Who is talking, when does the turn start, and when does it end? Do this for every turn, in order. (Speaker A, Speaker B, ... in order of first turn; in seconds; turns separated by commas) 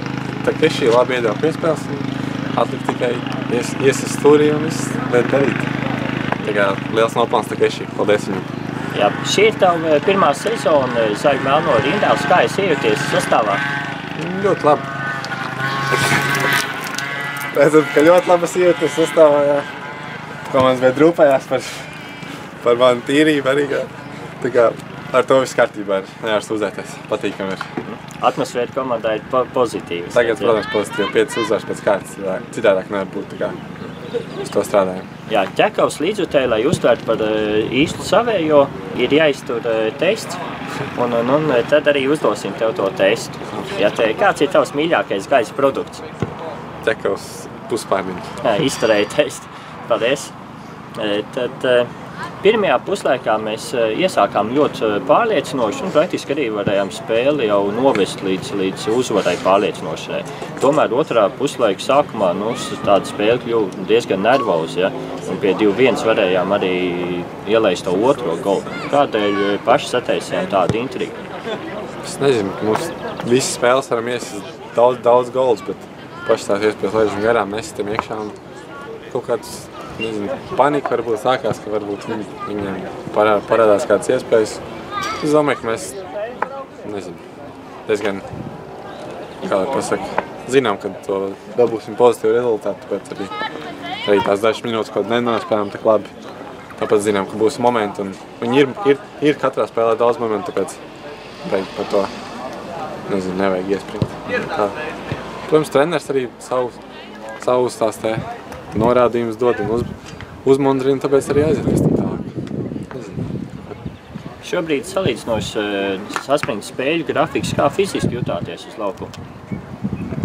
Speaker A: 0.4-5.7, Speaker A: 6.4-8.5, Speaker B: 8.9-13.6, Speaker A: 14.1-14.8, Speaker A: 17.5-19.7, Speaker A: 20.5-21.9, Speaker A: 22.6-27.7, Speaker B: 27.8-30.6, Speaker A: 30.1-33.6, Speaker A: 34.4-35.1, Speaker B: 35.3-40.4, Speaker B: 40.9-46.0, Speaker A: 46.8-48.3, Speaker B: 48.4-50.3, Speaker B: 51.0-51.9, Speaker B: 52.4-71.2, Speaker A: 72.0-78.4, Speaker A: 79.1-84.6, Speaker A: 85.2-86.0, Speaker A: 86.8-87.2, Speaker A: 87.9-88.2, Speaker A: 89.4-93.3, Speaker A: 94.0-96.1, Speaker A: 96.8-100.8, Speaker A: 101.4-102.1, Speaker A: 103.1-104.7, Speaker A: 105.5-106.8, Speaker A: 107.4-109.9, Speaker A: 110.4-112.3, Speaker A: 112.9-113.2, Speaker B: 114.4-119.1